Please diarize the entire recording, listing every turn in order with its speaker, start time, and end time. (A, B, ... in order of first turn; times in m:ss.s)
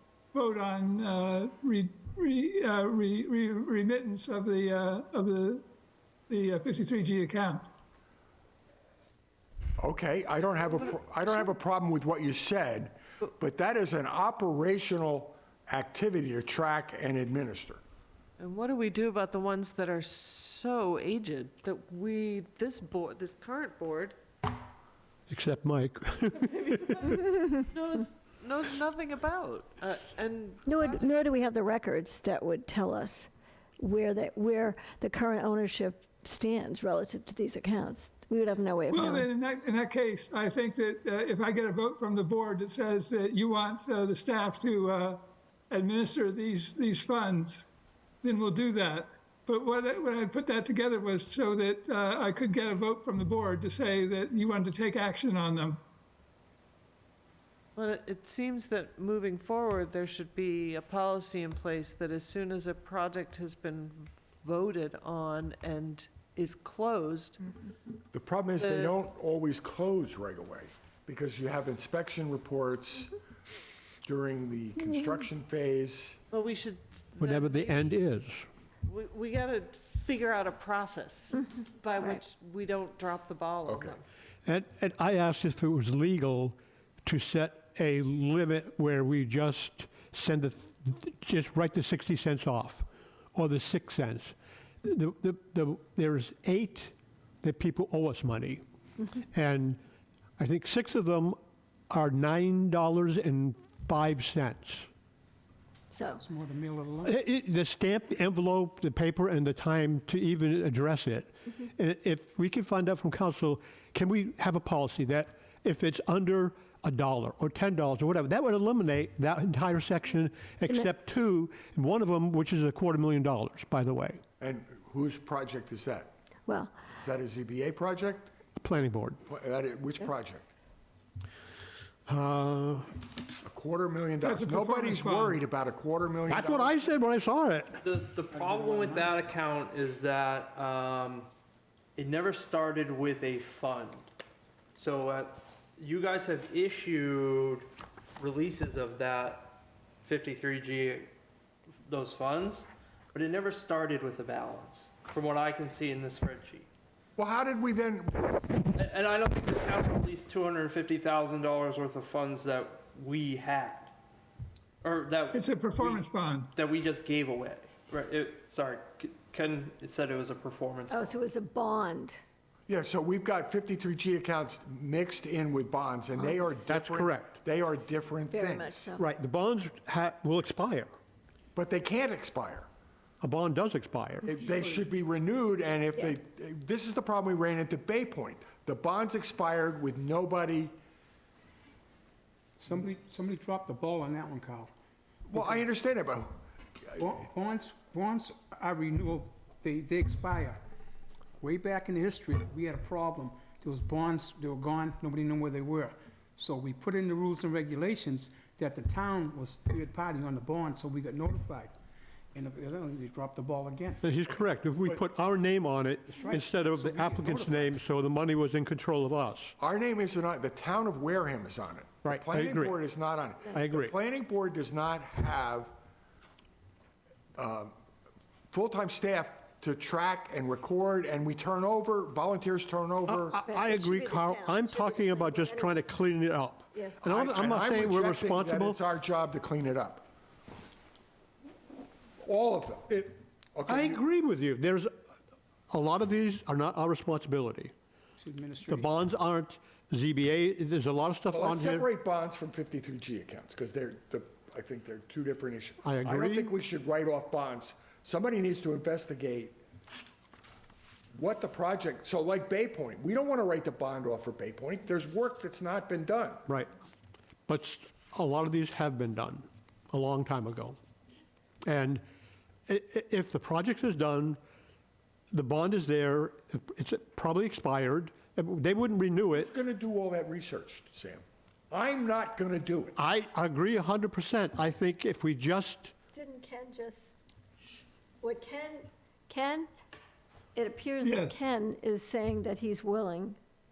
0:00.3-0:05.6 A
0:06.3-0:07.6 A
0:09.8-0:17.8 B
0:18.4-0:24.2 C
0:25.3-0:27.2 D
0:26.6-0:31.2 C
0:30.6-0:39.3 E
0:38.9-0:47.7 A
0:48.2-0:55.8 A
0:57.8-1:07.7 C
1:08.1-1:13.1 B
1:08.6-1:09.0 C
1:14.0-1:16.2 B
1:16.3-1:17.9 C
1:17.2-1:18.5 D
1:18.8-1:24.0 C
1:23.6-1:24.0 B
1:24.4-1:38.6 D
1:39.3-1:39.8 D
1:40.4-1:41.4 D
1:41.9-1:44.9 D
1:45.9-1:46.2 E
1:46.2-1:47.2 F
1:47.0-2:04.2 D
2:04.4-2:06.1 B
2:06.5-2:06.8 E
2:07.0-2:08.3 B
2:08.6-2:09.2 D
2:09.2-2:10.4 B
2:12.1-2:12.9 D
2:13.4-2:16.8 B
2:14.2-2:15.4 A
2:16.3-2:17.8 D
2:17.8-2:21.3 G
2:22.0-2:24.1 G
2:24.8-2:27.7 G
2:28.2-2:31.1 G
2:31.8-2:36.7 G
2:37.2-2:38.3 B
2:38.7-2:43.9 G
2:44.8-2:51.1 G
2:45.3-2:46.5 A
2:50.9-2:52.2 E
2:52.7-2:58.9 B
2:56.2-2:56.6 E
2:56.6-2:57.3 D
2:58.3-2:59.0 E
2:59.0-3:00.9 D
3:01.5-3:02.7 B
3:03.2-3:04.4 D
3:04.3-3:10.7 B
3:12.6-3:14.7 F
3:15.3-3:16.4 B
3:15.3-3:15.7 F
3:17.0-3:20.6 F
3:21.4-3:31.7 F
3:32.3-3:34.0 F
3:34.0-3:39.5 D
3:36.1-3:37.8 F
3:39.6-3:45.7 B
3:42.0-3:42.8 D
3:43.5-3:43.9 D
3:47.4-3:47.7 B
3:48.5-3:53.4 B
3:53.1-3:58.8 D
3:53.4-3:55.9 E
3:56.7-3:57.0 E
3:57.0-4:00.1 B
4:02.2-4:04.0 B
4:03.6-4:04.9 D
4:05.7-4:07.7 D
4:08.2-4:08.9 F
4:08.7-4:11.8 D
4:11.3-4:19.6 B
4:15.8-4:16.5 D
4:21.1-4:26.4 B
4:27.5-4:30.8 D
4:31.6-4:32.0 D
4:32.7-4:34.4 D
4:35.3-4:39.5 D
4:39.3-4:43.0 B
4:43.0-4:45.9 D
4:46.1-4:47.1 E
4:48.2-4:49.7 E
4:50.5-4:53.4 E
4:51.0-4:51.4 A